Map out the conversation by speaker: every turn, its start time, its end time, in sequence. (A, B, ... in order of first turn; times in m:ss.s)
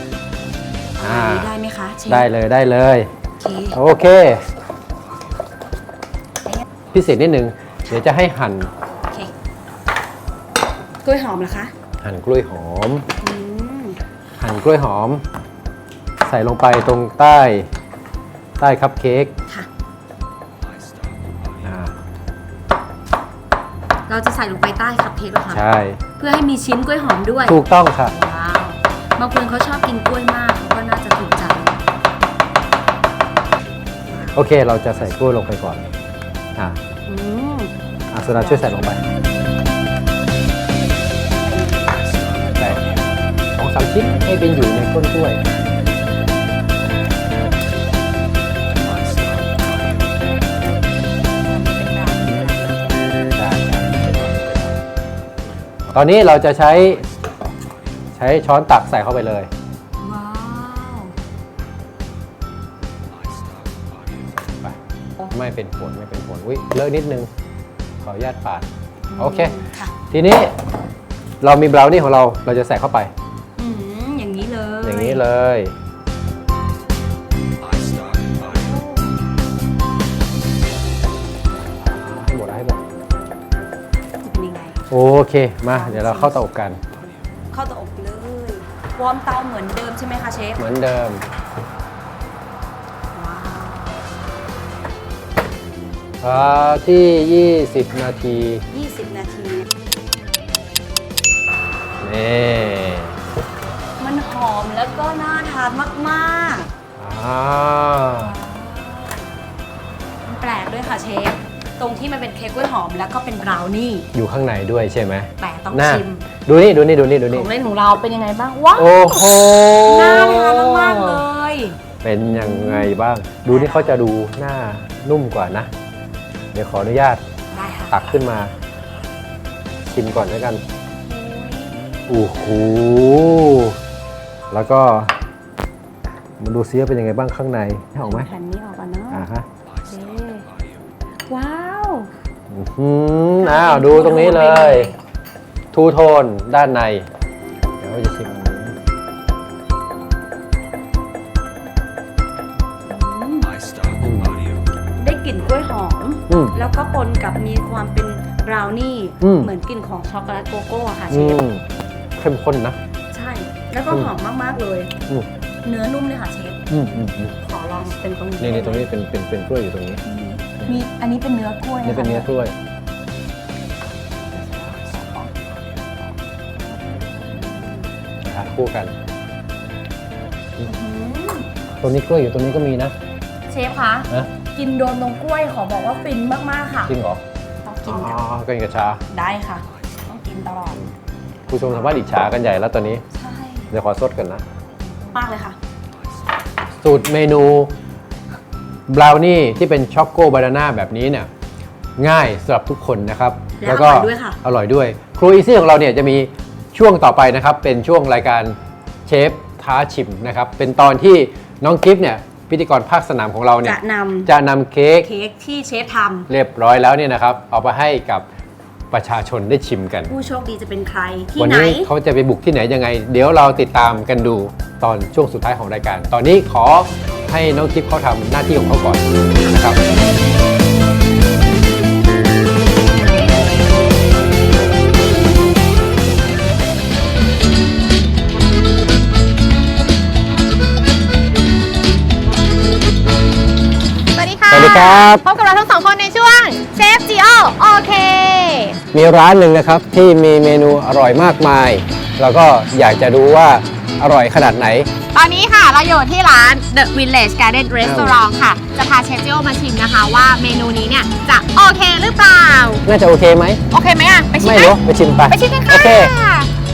0:01.0-0:02.3 A
0:01.0-0:01.5 B
0:02.1-0:03.1 B
0:03.4-0:03.8 A
0:03.7-0:04.5 B
0:06.9-0:08.7 B
0:09.0-0:09.3 A
0:11.0-0:11.7 A
0:12.0-0:13.1 B
0:13.2-0:14.0 A
0:14.4-0:15.2 B
0:16.2-0:17.7 B
0:18.6-0:19.3 B
0:21.6-0:21.9 B
0:24.1-0:31.8 A
0:25.5-0:26.0 B
0:27.5-0:28.1 B
0:34.3-0:35.9 B
0:37.1-0:39.0 A
0:38.1-0:39.0 B
0:41.4-0:42.9 A
0:42.6-0:42.8 B
0:43.6-0:45.4 B
0:51.4-0:53.1 A
0:53.4-0:54.7 B
0:55.9-0:57.1 B
0:58.2-0:59.5 B
1:00.0-1:01.2 A
1:04.4-1:04.8 B
1:05.3-1:07.3 B
1:08.0-1:09.6 B
1:09.1-1:09.9 A
1:10.1-1:10.6 B
1:11.4-1:13.1 B
1:13.6-1:15.2 A
1:14.8-1:15.8 B
1:18.4-1:19.1 A
1:21.8-1:22.8 B
1:24.2-1:24.9 A
1:24.9-1:26.8 B
1:25.7-1:26.4 A
1:27.0-1:30.6 A
1:30.6-1:31.2 B
1:33.1-1:34.1 A
1:36.2-1:38.6 B
1:38.7-1:39.7 A
1:42.0-1:43.2 B
1:44.0-1:46.7 A
1:47.0-1:48.3 B
1:48.1-1:49.3 A
1:50.2-1:54.1 A
1:54.1-1:57.5 B
1:55.4-1:56.3 A
1:57.3-2:02.9 A
1:58.8-2:01.2 B
2:02.0-2:05.7 B
2:03.5-2:04.0 A
2:06.5-2:07.2 B
2:07.5-2:08.1 A
2:07.9-2:08.5 B
2:09.9-2:10.6 B
2:11.1-2:12.3 A
2:12.1-2:13.8 B
2:14.5-2:15.2 B
2:16.4-2:18.3 B
2:18.0-2:19.3 A
2:19.1-2:19.5 B
2:19.9-2:20.5 A
2:21.3-2:22.1 A
2:22.5-2:24.9 B
2:23.4-2:25.0 A
2:25.7-2:27.1 B
2:27.8-2:28.8 B
2:32.9-2:33.6 A
2:34.0-2:34.4 B
2:35.0-2:41.4 A
2:36.3-2:36.6 B
2:39.2-2:39.5 B
2:41.1-2:41.6 B
2:42.2-2:42.8 B
2:43.1-2:45.0 A
2:45.6-2:48.9 A
2:46.7-2:47.3 B
2:48.4-2:50.0 B
2:50.0-2:52.3 A
2:51.8-2:52.6 B
2:54.3-2:55.3 A
2:56.0-2:57.9 A
2:58.2-2:58.9 B
3:00.6-3:01.5 A
3:01.8-3:03.0 B
3:03.5-3:07.0 A
3:06.9-3:07.2 B
3:07.6-3:08.2 A
3:07.9-3:09.0 B
3:09.1-3:10.8 A
3:11.5-3:13.0 B
3:13.1-3:13.7 A
3:13.7-3:14.4 B
3:15.0-3:15.6 A
3:16.8-3:17.7 B
3:18.9-3:21.3 B
3:22.0-3:35.1 B
3:23.6-3:24.4 A
3:33.6-3:34.3 A
3:35.0-3:36.3 A
3:36.3-3:38.3 B
3:38.9-3:40.1 B
3:40.1-3:41.9 A
3:41.4-3:49.8 B
4:04.2-4:08.8 C
4:04.5-4:05.2 B
4:08.9-4:14.9 B
4:15.1-4:22.8 C
4:17.8-4:18.2 B
4:22.9-4:23.6 B
4:23.7-4:24.8 C
4:24.4-4:26.1 B
4:25.3-4:26.5 C